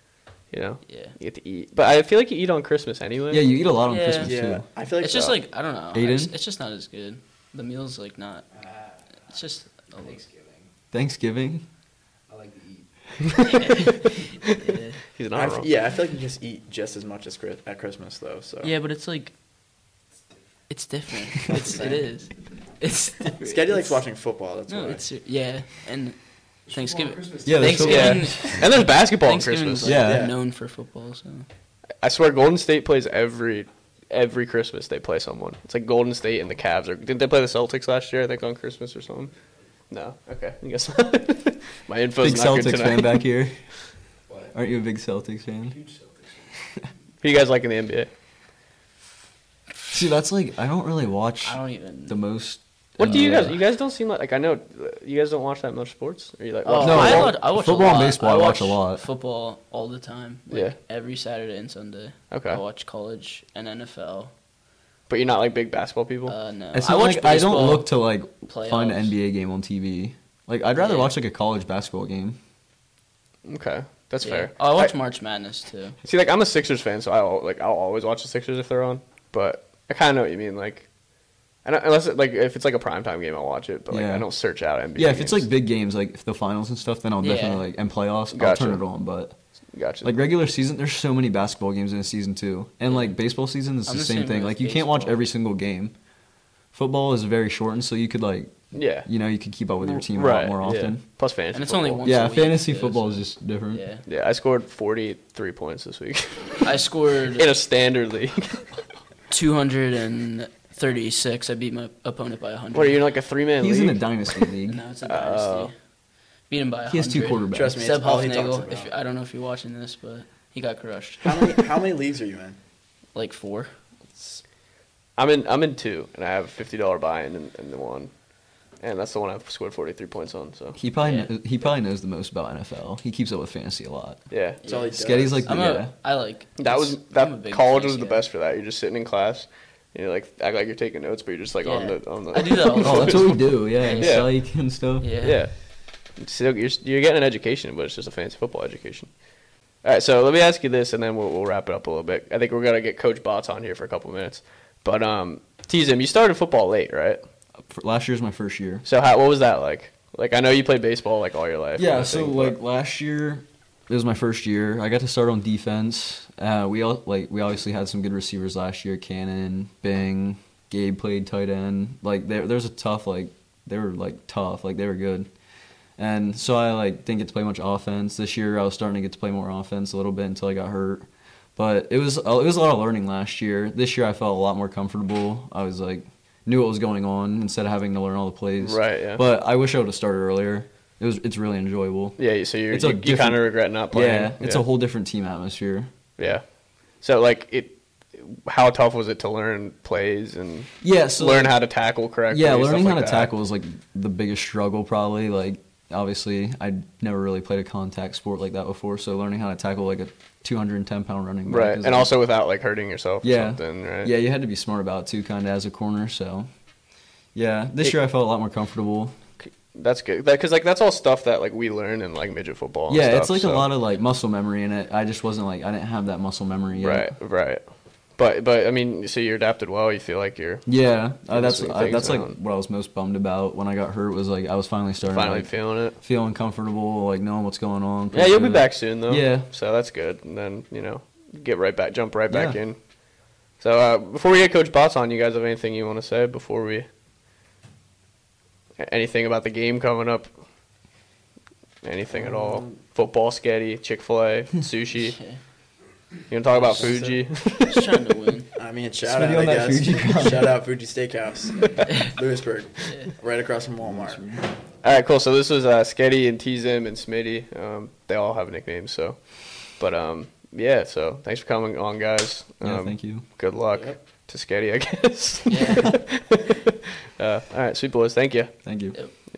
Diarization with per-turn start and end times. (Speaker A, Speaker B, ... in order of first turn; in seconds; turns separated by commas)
Speaker A: 0.5-3.5, Speaker B: 0.9-1.1, Speaker C: 3.3-4.7, Speaker B: 3.9-4.3, Speaker D: 4.2-5.4, Speaker B: 5.0-8.5, Speaker C: 5.9-6.3, Speaker E: 8.5-10.7, Speaker B: 9.3-10.2, Speaker C: 10.9-11.6, Speaker E: 12.3-13.4, Speaker A: 13.3-14.5, Speaker B: 13.4-15.0, Speaker A: 15.1-15.7, Speaker D: 15.3-18.7, Speaker B: 18.6-19.3, Speaker B: 20.7-24.0, Speaker D: 21.5-22.0, Speaker D: 23.4-25.1, Speaker B: 24.7-31.4, Speaker E: 26.7-28.6, Speaker C: 27.4-28.4, Speaker A: 27.8-30.0, Speaker C: 29.8-30.3, Speaker D: 29.9-30.3, Speaker A: 32.0-39.3, Speaker A: 39.9-43.2, Speaker C: 42.2-43.7, Speaker E: 44.3-44.5, Speaker C: 44.5-45.8, Speaker E: 45.6-46.6, Speaker A: 47.2-48.1, Speaker C: 49.9-53.6, Speaker B: 51.4-52.2, Speaker A: 53.0-57.4, Speaker B: 56.6-64.3, Speaker C: 56.8-59.0, Speaker A: 60.5-60.8, Speaker A: 62.3-62.6, Speaker A: 65.1-66.3, Speaker B: 66.3-67.9, Speaker C: 66.7-72.4, Speaker B: 68.5-69.1, Speaker B: 70.8-71.1, Speaker A: 73.5-74.9, Speaker B: 74.2-76.0, Speaker A: 76.0-80.9, Speaker A: 81.6-85.5, Speaker C: 83.9-84.3, Speaker C: 84.9-89.4, Speaker B: 87.2-87.6, Speaker A: 88.3-88.9, Speaker A: 89.7-90.3, Speaker C: 90.0-95.9, Speaker B: 92.9-93.1, Speaker B: 93.8-95.2, Speaker C: 96.7-101.0, Speaker A: 98.7-99.1, Speaker A: 99.8-102.1, Speaker B: 101.5-104.0, Speaker C: 102.0-103.8, Speaker A: 104.0-108.8, Speaker B: 106.6-107.5, Speaker B: 109.3-113.0, Speaker A: 112.7-114.0, Speaker C: 113.6-114.8, Speaker B: 114.7-115.7, Speaker A: 115.0-115.7, Speaker B: 116.5-121.7, Speaker C: 116.9-117.8, Speaker D: 117.5-118.9, Speaker D: 121.2-122.6, Speaker B: 123.1-123.7, Speaker A: 125.2-128.1, Speaker A: 128.8-130.8, Speaker C: 130.7-134.2, Speaker B: 131.0-131.3, Speaker A: 134.3-134.6, Speaker B: 134.6-138.2, Speaker D: 134.6-135.6, Speaker C: 134.9-135.9, Speaker A: 136.6-144.3, Speaker B: 141.6-144.3, Speaker C: 142.8-145.1, Speaker B: 145.0-145.4, Speaker A: 145.2-145.6, Speaker A: 146.2-149.1, Speaker A: 149.8-157.2, Speaker C: 157.7-158.8, Speaker A: 158.8-162.6, Speaker C: 161.8-175.3, Speaker C: 176.0-195.9, Speaker A: 188.6-189.2, Speaker A: 192.2-194.6, Speaker A: 196.2-203.3, Speaker C: 200.8-201.6, Speaker C: 202.3-212.2, Speaker A: 211.5-214.1, Speaker C: 213.2-216.5, Speaker C: 217.3-219.2, Speaker A: 219.4-223.7, Speaker C: 222.9-227.1, Speaker A: 226.8-230.7, Speaker C: 230.7-239.5, Speaker A: 231.2-232.3, Speaker A: 235.0-236.0, Speaker A: 238.1-242.8, Speaker C: 242.3-242.6, Speaker A: 243.6-246.8, Speaker A: 248.8-250.3, Speaker A: 251.8-255.2, Speaker D: 252.1-252.8, Speaker B: 255.1-255.4, Speaker A: 256.3-258.0, Speaker D: 256.6-257.2, Speaker B: 257.6-258.5, Speaker D: 258.5-264.2, Speaker C: 259.0-260.6, Speaker C: 263.8-264.5, Speaker A: 264.8-278.6, Speaker C: 272.6-273.2, Speaker D: 273.7-274.0, Speaker B: 275.5-275.8, Speaker C: 278.6-278.9